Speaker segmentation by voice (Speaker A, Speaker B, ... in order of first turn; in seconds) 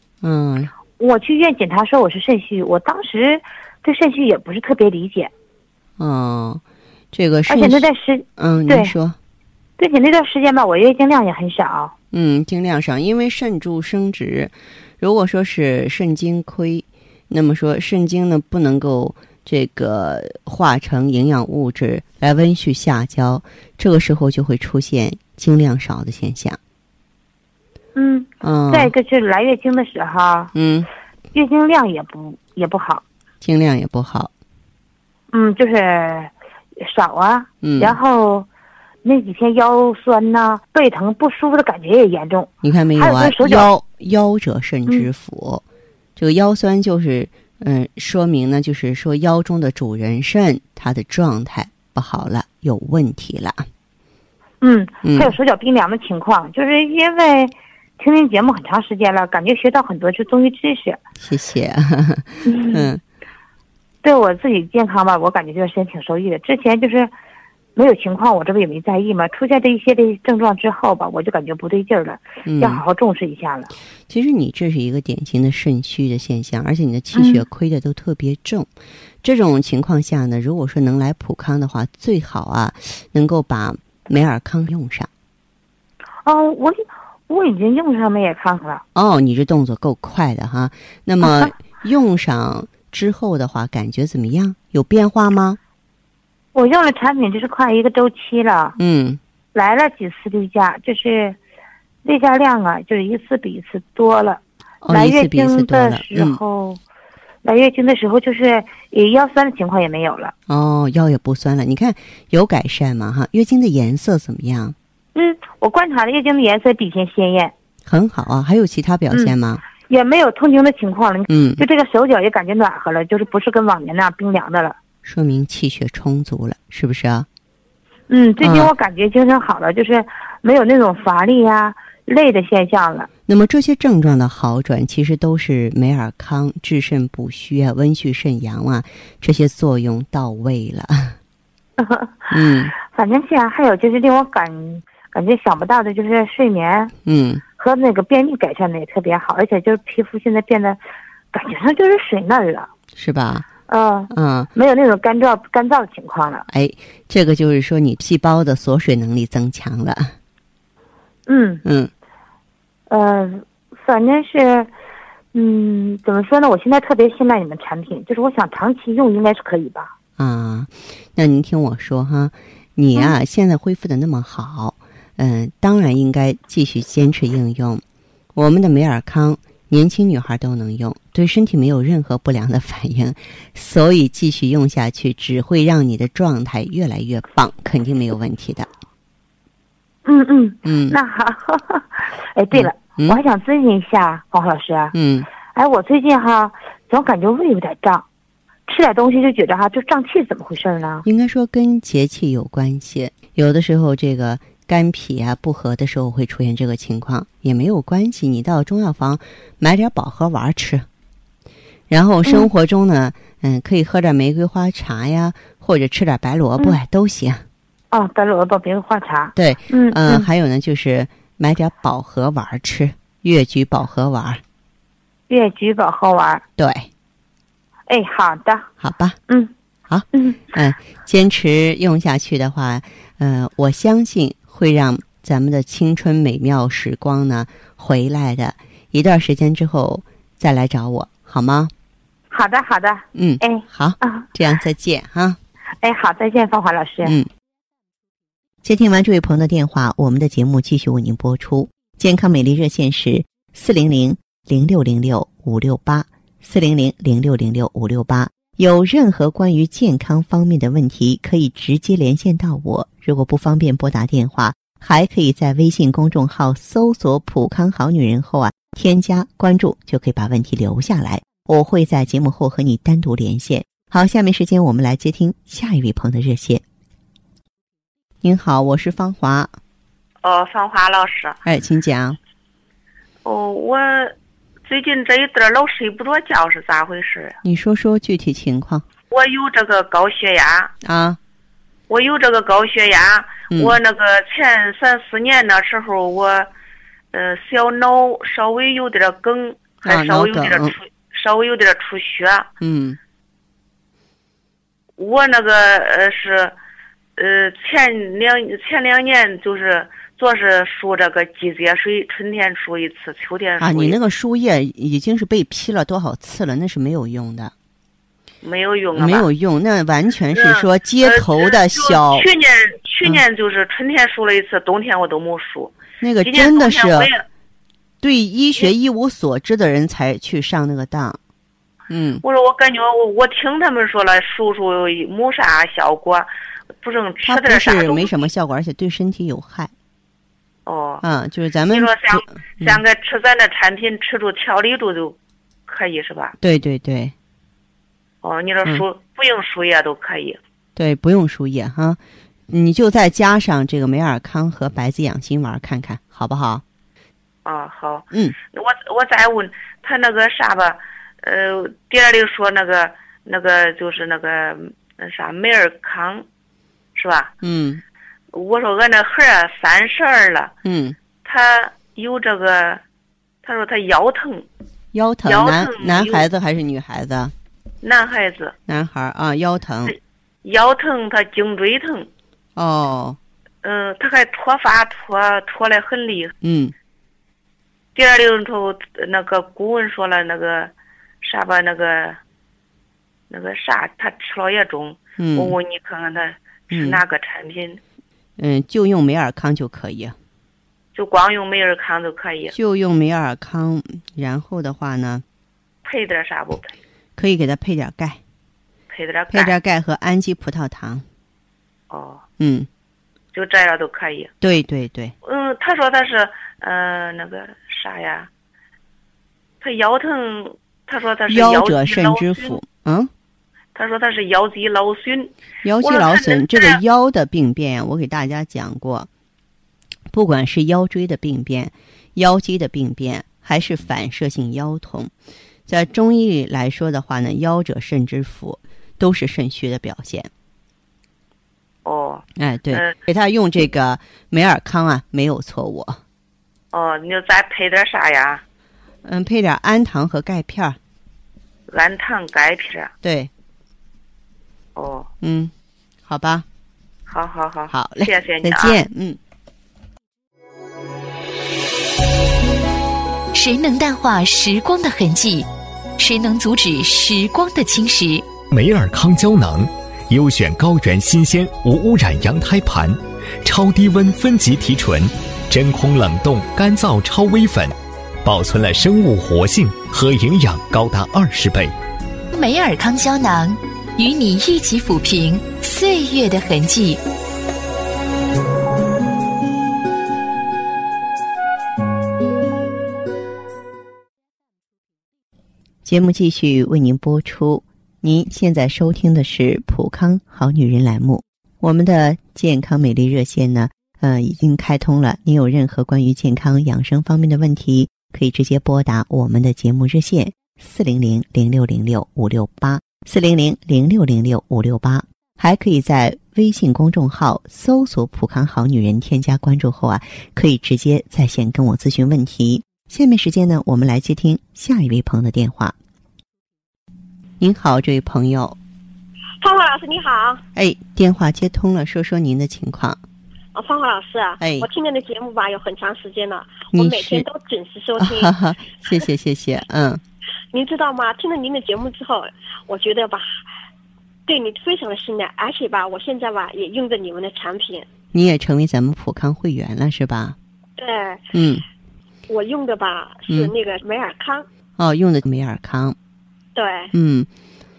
Speaker A: 0.2-0.7, 6.0-9.2, 12.1-26.6, 28.4-28.9, 30.5-30.9, 33.4-34.3, 37.6-38.0, 42.6-45.6, 46.1-53.6, 55.0-55.3, 61.2-63.0, 72.4-72.8, 74.1-78.7, 79.2-85.1, 88.9-95.6, 98.8-99.2, 104.8-106.4, 110.5-114.8, 117.8-119.6, 121.3-121.6, 125.0-127.3, 128.4-128.7, 133.3-141.2, 142.3-142.7, 147.0-147.4, 152.9-153.4, 154.1-154.5, 156.5-160.1, 161.6-161.9, 170.2-177.8, 178.3-188.7, 190.6-191.0, 192.5-193.2, 194.9-195.3, 201.0-210.9, 211.9-217.4, 219.3-224.4, 226.6-226.9, 228.8-229.2, 229.9-241.7, 243.1-245.4, 247.0-247.3, 248.6-276.6, 278.2-279.5, 281.4-282.2, 287.4-288.8, 290.8-291.2, 293.5-293.8, 299.8-300.7, 302.6-303.0, 313.6-317.5, 318.9-322.3, 326.0-327.1, 328.0-331.2, 331.9-332.2, 337.2-339.7, 341.0-342.8, 346.4-347.1, 350.8-356.6, 367.4-367.8, 370.6-370.9, 374.9-377.3, 378.7-379.9, 382.6-383.2, 386.4-386.7, 395.2-395.6, 396.7-397.0, 398.4-400.2, 402.5-405.2, 407.2-408.2, 409.3-411.1, 412.4-412.7, 414.4-415.1, 421.3-423.1, 425.6-429.1, 430.1-435.1, 435.7-440.3, 442.4-446.0, 449.0-450.8, 453.0-453.3, 455.2-455.5, 456.1-456.4, 457.7-459.2, 495.8-525.8, 527.4-528.6, 530.5-533.0, 534.4-534.7, 536.7-537.2, 538.0-540.0, 548.1-550.4, 551.3-551.6, 554.8-556.0, 556.9-557.3
Speaker B: 1.0-5.3, 7.5-8.9, 9.8-11.9, 27.9-30.5, 31.3-33.0, 35.3-38.5, 39.0-43.7, 54.6-61.0, 62.4-62.9, 64.0-67.1, 67.8-73.7, 77.1-77.4, 86.2-88.8, 91.2-91.5, 96.5-98.8, 99.5-101.4, 102.0-106.8, 107.4-110.3, 115.1-117.5, 119.9-124.8, 128.1-133.1, 141.8-142.3, 142.8-146.9, 147.6-150.8, 151.3-152.7, 153.7-156.4, 161.3-161.6, 162.9-164.7, 165.3-169.9, 190.0-194.9, 195.5-198.1, 198.7-201.0, 217.9-220.3, 225.3-226.4, 227.9-228.7, 230.1-230.4, 242.3-244.3, 245.8-247.2
Speaker C: 280.2-281.4, 283.2-284.1, 284.6-287.4, 289.1-290.7, 291.9-296.5, 297.1-302.5, 305.0-306.6, 307.2-314.0, 318.4-319.3, 320.3-327.2, 332.2-336.3, 336.8-338.1, 340.6-341.0, 341.7-346.4, 348.2-350.4, 357.4-366.2, 366.9-367.3, 368.3-370.5, 371.2-372.8, 373.4-374.5, 375.2-376.3, 377.8-378.5, 379.9-382.1, 383.6-386.3, 387.9-392.2, 393.3-397.8, 400.9-402.5, 405.8-406.8, 408.9-409.5, 411.9-412.2, 413.3-414.3, 415.2-418.3, 419.6-422.6, 423.7-426.8, 441.8-442.9, 446.7-448.4, 451.7-452.9, 454.8-455.1, 457.1-458.8
Speaker D: 463.3-468.3, 482.3-487.0
Speaker E: 468.5-481.7
Speaker F: 529.4-530.4, 533.5-538.3, 540.5-543.4, 544.3-547.9, 550.8-551.2, 552.3-554.5, 556.5-556.9